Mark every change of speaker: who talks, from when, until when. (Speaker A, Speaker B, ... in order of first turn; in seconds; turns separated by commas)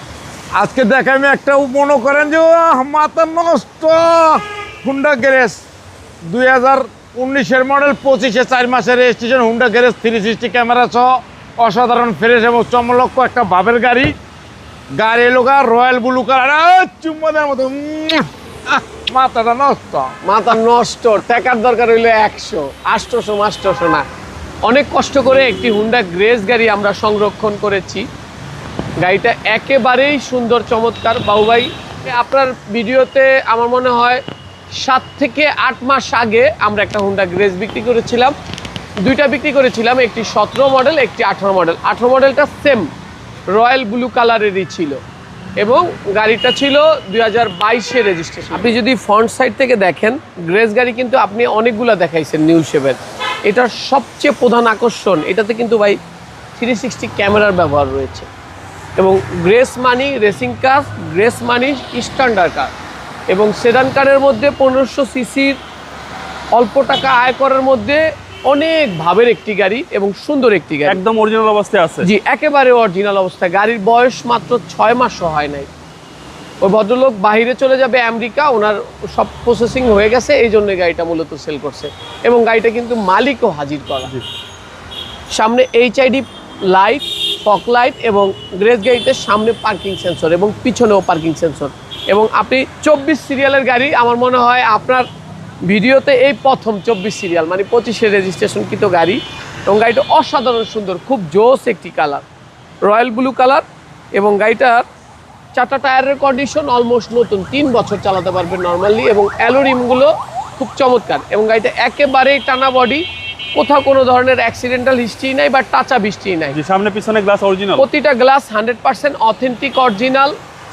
Speaker A: 0.5-5.6, Speaker A: 6.2-14.1, Speaker A: 14.9-20.1, Speaker B: 20.2-24.1, Speaker B: 24.6-28.0, Speaker B: 29.0-34.2, Speaker B: 34.7-38.3, Speaker B: 39.0-42.9, Speaker B: 43.5-45.0, Speaker B: 45.6-56.0, Speaker B: 56.5-58.3, Speaker B: 59.0-62.7, Speaker B: 63.3-65.6, Speaker B: 66.5-71.0, Speaker C: 70.9-72.1, Speaker B: 72.0-75.7, Speaker B: 76.6-84.1, Speaker B: 85.3-95.0, Speaker B: 95.7-102.2, Speaker B: 102.8-103.6, Speaker B: 104.2-104.8, Speaker B: 105.5-113.0, Speaker B: 113.5-116.6, Speaker C: 116.5-117.9, Speaker B: 117.8-120.3